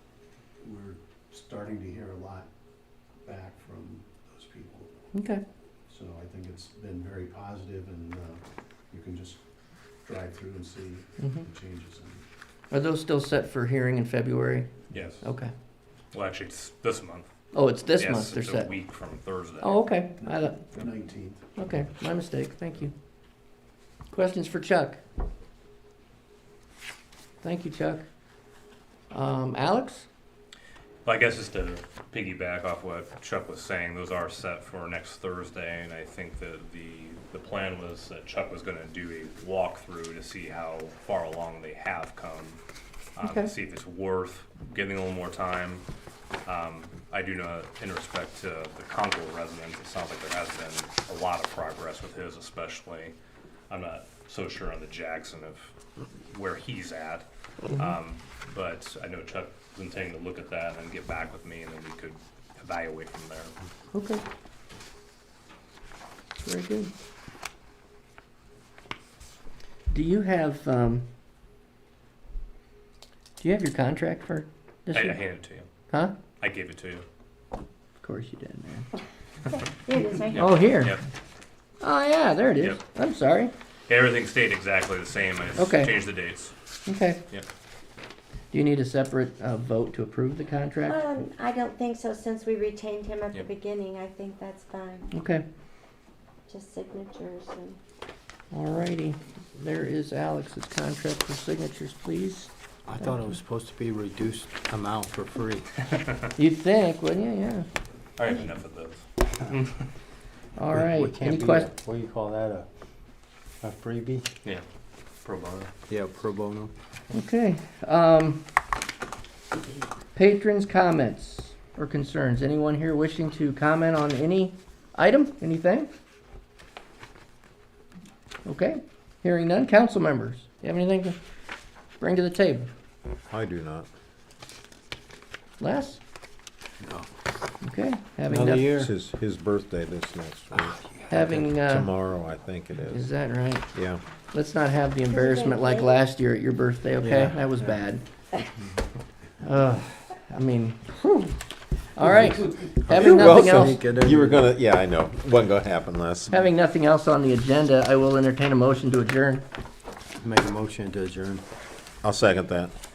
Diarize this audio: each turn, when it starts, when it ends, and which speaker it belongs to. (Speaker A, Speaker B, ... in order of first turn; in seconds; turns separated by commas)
Speaker A: 0.6-2.5, Speaker A: 3.2-4.9, Speaker B: 5.1-5.4, Speaker A: 5.9-9.4, Speaker A: 10.0-12.2, Speaker B: 11.2-11.5, Speaker B: 12.7-14.7, Speaker C: 14.9-15.2, Speaker B: 15.2-15.5, Speaker C: 16.1-17.3, Speaker B: 17.5-18.7, Speaker C: 18.0-19.8, Speaker B: 19.6-20.6, Speaker A: 20.2-21.5, Speaker B: 21.6-22.9, Speaker B: 24.1-25.0, Speaker B: 27.4-28.1, Speaker B: 29.1-30.1, Speaker C: 31.1-42.6, Speaker C: 43.2-45.9, Speaker B: 43.2-43.5, Speaker C: 46.5-53.1, Speaker C: 53.7-55.7, Speaker C: 56.3-63.5, Speaker B: 63.9-64.2, Speaker B: 66.4-66.9, Speaker B: 69.9-71.1, Speaker B: 73.4-75.2, Speaker C: 74.9-75.7, Speaker B: 75.9-76.2, Speaker C: 76.4-77.0, Speaker B: 78.0-78.9, Speaker D: 79.8-80.8, Speaker C: 80.3-81.0, Speaker B: 80.3-81.0, Speaker B: 81.8-83.5, Speaker C: 83.9-86.5, Speaker B: 85.6-85.9, Speaker B: 86.9-87.2, Speaker B: 88.5-91.0, Speaker D: 90.8-95.1, Speaker B: 95.1-95.5, Speaker D: 96.5-97.8, Speaker B: 98.5-102.5, Speaker E: 102.9-105.7, Speaker B: 106.4-107.7, Speaker C: 108.2-109.8, Speaker B: 110.6-111.7, Speaker E: 110.7-112.7, Speaker E: 113.6-114.3, Speaker C: 115.2-115.7, Speaker E: 115.9-116.7, Speaker B: 117.1-118.4, Speaker B: 120.2-125.9, Speaker B: 128.4-131.2, Speaker B: 132.0-132.7, Speaker F: 133.3-133.9, Speaker B: 135.6-136.0, Speaker E: 136.8-137.1, Speaker B: 137.6-138.7, Speaker E: 138.3-138.9, Speaker F: 138.8-140.8, Speaker E: 140.5-141.4, Speaker B: 141.1-141.9, Speaker F: 141.3-143.0, Speaker B: 142.9-143.7, Speaker F: 143.7-144.0, Speaker B: 144.3-148.1, Speaker D: 145.1-146.0, Speaker E: 147.0-147.8, Speaker B: 149.4-151.4, Speaker B: 151.9-153.8, Speaker E: 152.0-154.4, Speaker F: 152.9-156.3, Speaker B: 156.3-159.4, Speaker E: 160.2-161.4, Speaker F: 162.0-162.7